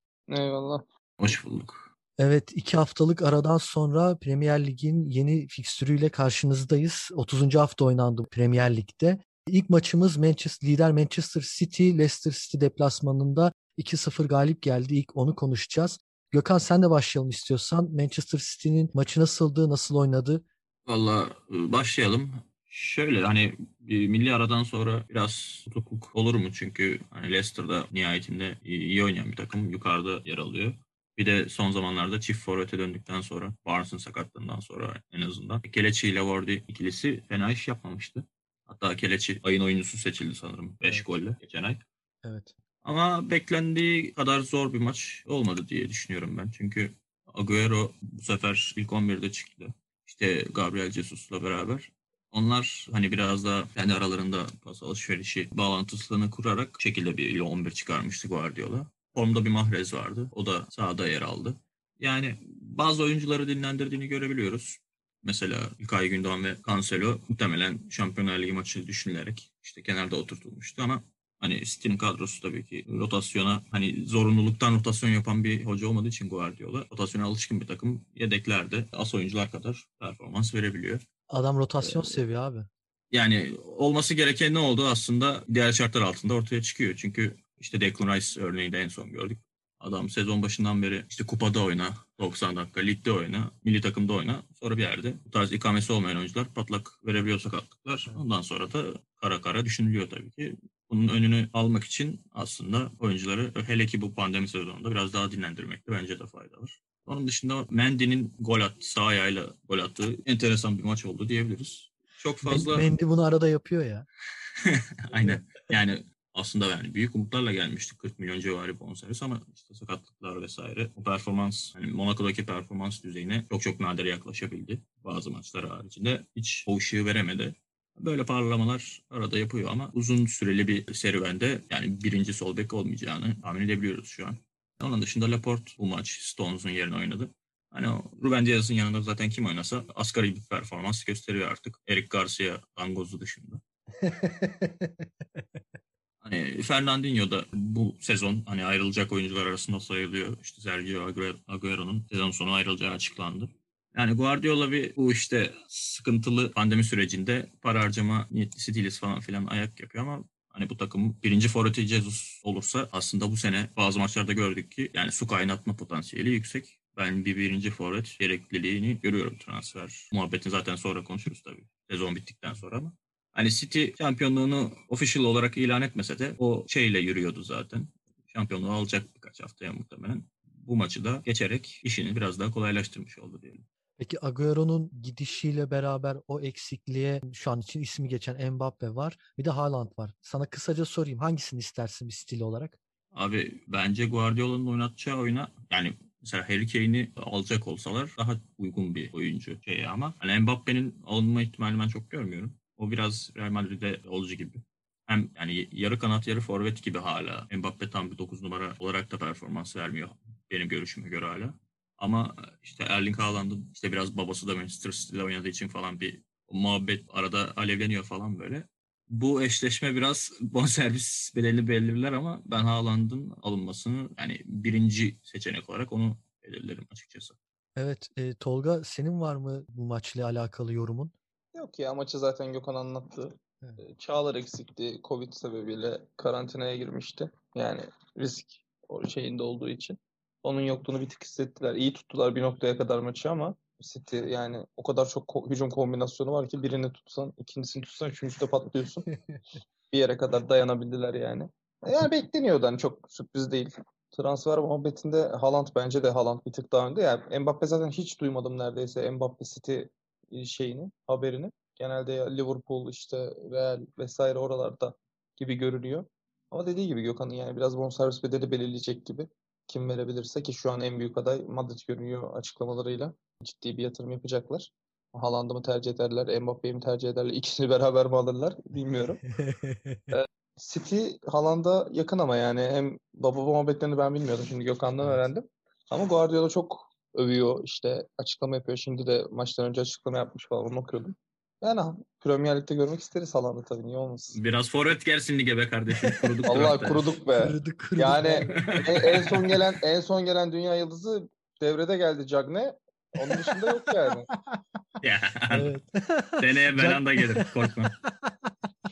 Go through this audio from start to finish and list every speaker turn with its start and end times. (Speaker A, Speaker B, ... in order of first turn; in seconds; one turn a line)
Speaker A: 0.3-0.8
Speaker B: 1.2-1.9
Speaker C: 2.2-20.4
Speaker B: 20.9-41.8
Speaker C: 40.8-41.1
Speaker C: 42.2-42.5
Speaker B: 42.8-81.0
Speaker C: 81.3-82.7
Speaker B: 81.8-82.2
Speaker B: 83.1-112.9
Speaker C: 112.5-114.1
Speaker B: 114.6-143.6
Speaker C: 115.2-115.5
Speaker C: 144.0-145.1
Speaker B: 146.2-183.7
Speaker C: 184.0-192.8
Speaker B: 193.1-227.4
Speaker C: 227.8-231.1
Speaker A: 231.6-249.1
Speaker C: 249.1-249.4
Speaker A: 249.9-279.2
Speaker C: 279.3-280.1
Speaker A: 280.1-294.4
Speaker C: 285.0-285.3
Speaker B: 294.3-297.0
Speaker C: 296.0-296.3
Speaker A: 296.5-304.3
Speaker C: 297.4-299.4
Speaker B: 298.5-299.5
Speaker C: 303.2-303.6
Speaker B: 305.0-305.7
Speaker C: 305.5-307.5
Speaker B: 306.4-307.9
Speaker C: 308.2-308.5